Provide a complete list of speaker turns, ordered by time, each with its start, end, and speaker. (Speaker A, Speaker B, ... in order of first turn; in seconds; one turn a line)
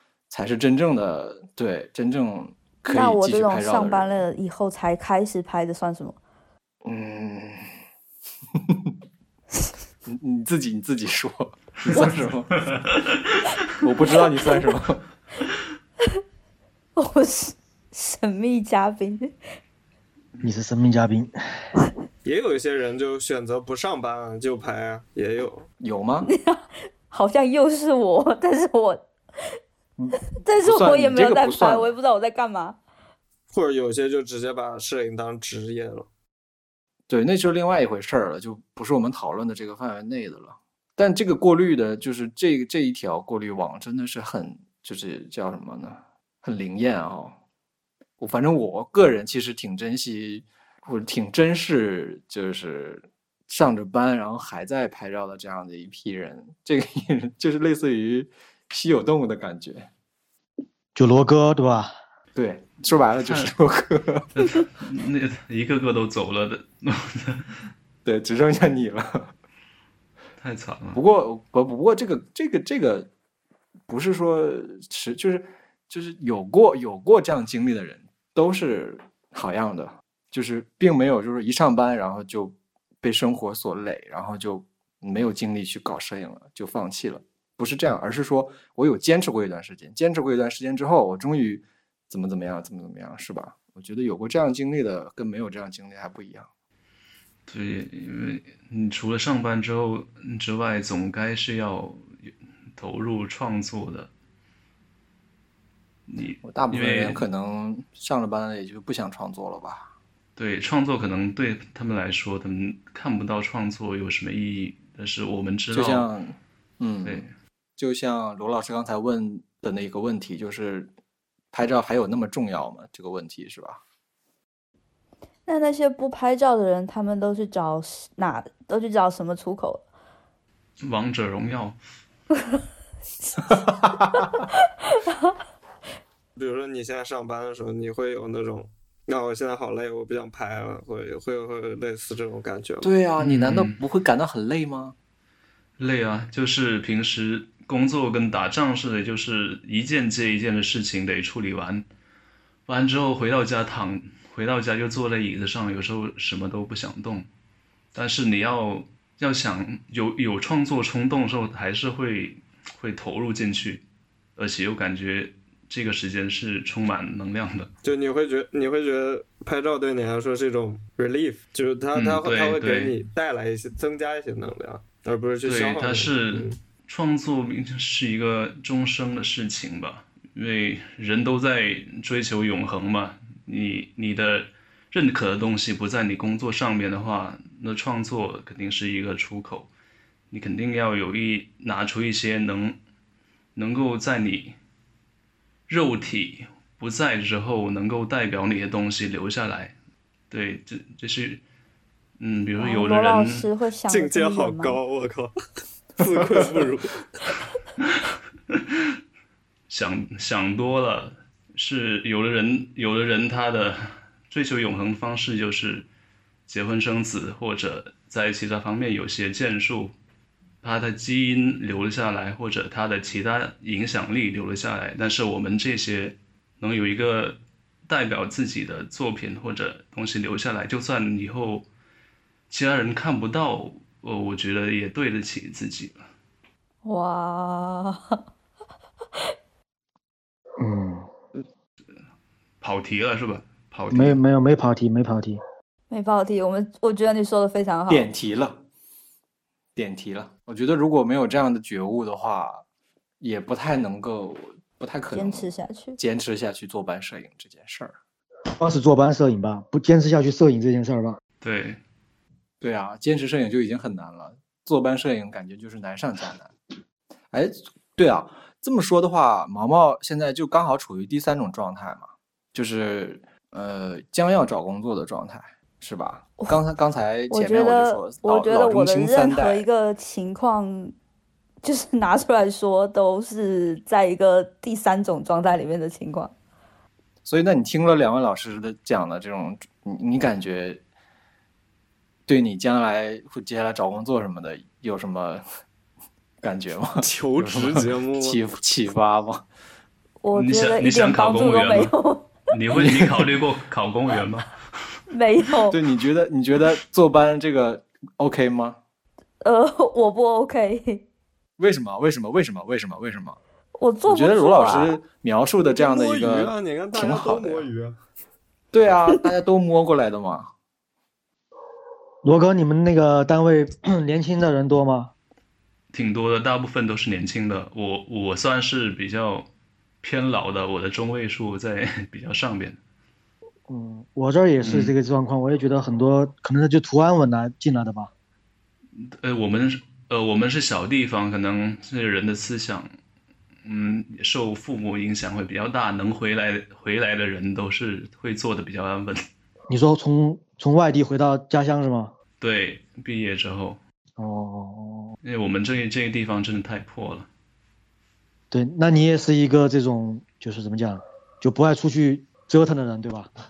Speaker A: 0.3-4.2
Speaker B: 2.9-6.2
Speaker A: 6.8-7.7
Speaker A: 8.6-8.9
Speaker A: 10.1-12.7
Speaker A: 13.8-15.0
Speaker B: 17.0-19.3
Speaker C: 20.4-21.3
Speaker D: 22.2-25.7
Speaker A: 25.8-26.3
Speaker B: 26.2-29.0
Speaker B: 30.4-32.8
Speaker A: 30.6-31.9
Speaker D: 33.5-36.1
Speaker A: 37.1-47.4
Speaker A: 48.2-59.9
Speaker C: 60.9-61.9
Speaker A: 62.3-64.3
Speaker E: 63.2-63.5
Speaker E: 64.4-67.7
Speaker A: 68.0-69.3
Speaker E: 70.4-71.0
Speaker A: 70.9-73.1
Speaker A: 73.9-96.5
Speaker E: 97.5-102.1
Speaker E: 102.8-104.1
Speaker E: 106.1-107.2
Speaker A: 106.4-109.9
Speaker E: 110.3-116.1
Speaker A: 115.7-120.9
Speaker E: 117.0-117.3
Speaker A: 121.5-123.8
Speaker B: 125.5-129.8
Speaker E: 130.8-131.8
Speaker D: 136.3-142.9
Speaker A: 142.8-144.9
Speaker E: 143.2-143.7
Speaker E: 145.8-151.8
Speaker E: 152.7-157.3
Speaker E: 157.9-163.8
Speaker E: 164.3-167.7
Speaker D: 167.8-176.6
Speaker E: 171.9-172.9
Speaker E: 175.4-189.7
Speaker E: 190.3-192.8
Speaker E: 193.6-194.5
Speaker E: 195.7-199.7
Speaker E: 200.3-201.4
Speaker E: 202.2-203.5
Speaker B: 202.6-204.8
Speaker D: 203.9-205.3
Speaker D: 206.0-207.0
Speaker E: 209.7-215.9
Speaker E: 216.5-219.9
Speaker E: 220.6-231.7
Speaker E: 232.5-236.0
Speaker B: 236.8-238.2
Speaker C: 240.6-241.1
Speaker E: 242.6-244.2
Speaker C: 243.9-245.4
Speaker B: 245.9-248.1
Speaker A: 247.9-248.6
Speaker A: 249.8-252.6
Speaker A: 253.2-257.9
Speaker B: 255.1-256.0
Speaker C: 258.6-261.2
Speaker E: 261.4-261.8
Speaker A: 262.6-266.5
Speaker A: 267.3-279.7
Speaker B: 277.3-280.9
Speaker B: 281.6-286.3
Speaker A: 287.2-290.8
Speaker A: 292.3-295.4
Speaker A: 296.4-299.4
Speaker D: 297.0-298.4
Speaker B: 300.2-302.4
Speaker E: 300.3-301.9
Speaker E: 302.5-304.5
Speaker B: 305.1-305.8
Speaker A: 305.7-308.8
Speaker B: 309.4-311.0
Speaker A: 311.6-313.4
Speaker B: 313.8-315.0
Speaker A: 314.1-317.7
Speaker D: 315.8-318.0
Speaker A: 318.7-320.5
Speaker C: 322.2-325.1
Speaker E: 325.9-329.5
Speaker E: 330.0-332.8
Speaker C: 333.7-338.1
Speaker E: 334.6-334.9
Speaker E: 339.0-342.9
Speaker E: 343.6-349.3
Speaker C: 349.7-352.1
Speaker E: 352.4-353.8
Speaker C: 354.2-355.1
Speaker E: 355.2-357.3
Speaker C: 358.5-363.3